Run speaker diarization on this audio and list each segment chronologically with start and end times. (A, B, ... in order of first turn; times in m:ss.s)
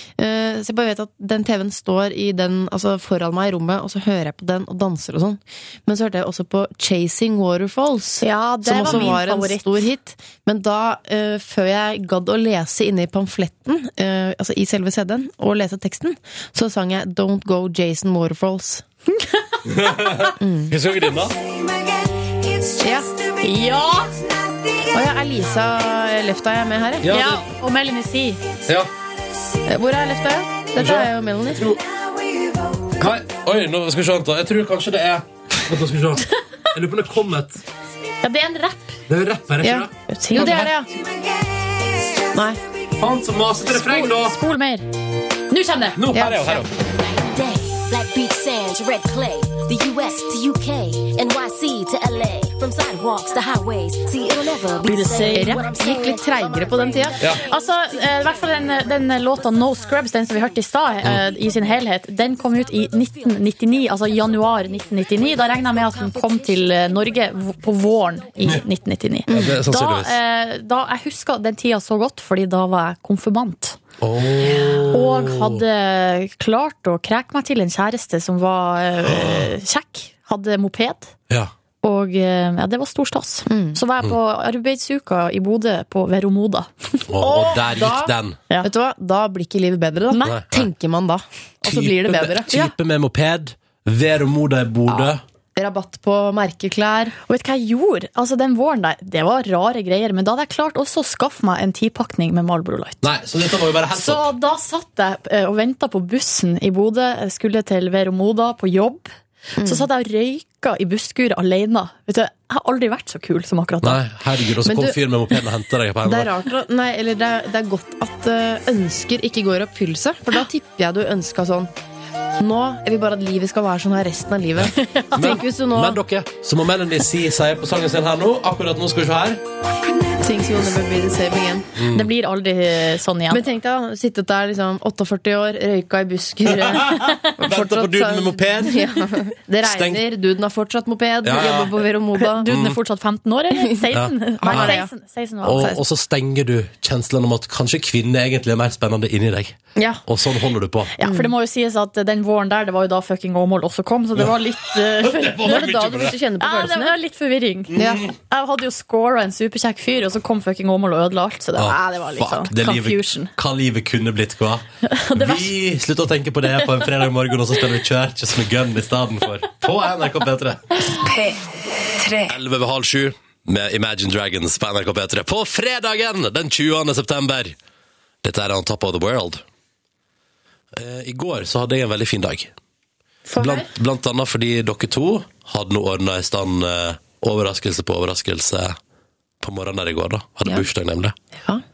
0:00.2-0:18.8 A
0:08.2-0:09.8 B
0:08.8-0:09.1 C
0:19.1-0:20.1 B
0:19.7-0:21.4 C
0:20.4-0:20.7 A
0:22.8-0:23.1 A
0:23.4-0:24.1 B
0:24.8-0:27.0 A
0:27.0-0:27.4 C
0:27.1-0:28.4 B
0:29.6-0:31.7 A
0:30.8-0:31.8 C
0:33.0-0:37.6 C
0:38.2-0:39.0 B
0:39.1-0:40.7 C
0:39.6-0:40.9 A
0:40.1-0:40.6 B
0:42.3-0:42.6 A
0:43.0-0:44.3 C
0:43.6-0:44.8 B
0:45.5-0:46.0 B
0:46.0-0:46.7 C
0:46.1-0:46.6 A
0:47.0-0:56.4 D
0:54.8-0:55.6 B
0:55.3-0:57.2 A
0:57.4-1:13.8 B
1:09.3-1:09.6 A
1:09.3-1:10.1 C
1:14.0-1:15.6 C
1:14.9-1:21.1 B
1:19.1-1:19.5 C
1:21.8-1:27.0 B
1:23.5-1:23.8 A
1:27.1-1:28.4 C
1:27.2-1:32.5 A
1:30.1-1:30.4 B
1:30.2-1:30.7 C
1:31.6-1:35.2 C
1:34.9-1:37.1 A
1:37.2-1:43.0 B
1:43.0-1:44.3 C
1:43.9-1:54.0 B
1:49.6-1:49.8 A
1:53.8-1:56.3 C
1:54.6-1:55.0 A
1:56.0-2:01.7 A
2:02.4-2:06.0 A
2:04.7-2:05.4 B
2:05.2-2:09.4 C
2:10.2-2:11.6 A
2:11.8-2:12.1 C
2:11.9-2:13.4 B
2:13.3-2:22.5 A
2:16.6-2:20.0 C
2:17.1-2:17.3 B
2:21.2-2:21.9 C
2:22.2-2:25.7 B
2:22.4-2:22.8 C
2:23.9-2:24.8 C
2:24.4-2:24.9 A
2:25.4-2:30.9 C
2:29.8-2:30.0 A
2:31.0-2:35.7 B
2:31.0-2:31.3 A
2:34.2-2:36.2 C
2:35.4-2:37.0 A
2:36.4-2:37.7 B
2:37.7-2:38.1 C
2:37.8-2:38.1 A
2:38.3-2:43.3 B
2:41.6-2:50.8 C
2:44.8-2:45.5 B
2:52.2-2:57.5 C
2:58.2-2:59.4 C
3:00.7-3:02.5 C
3:03.3-3:03.7 B
3:03.4-3:08.8 C
3:09.4-3:11.1 C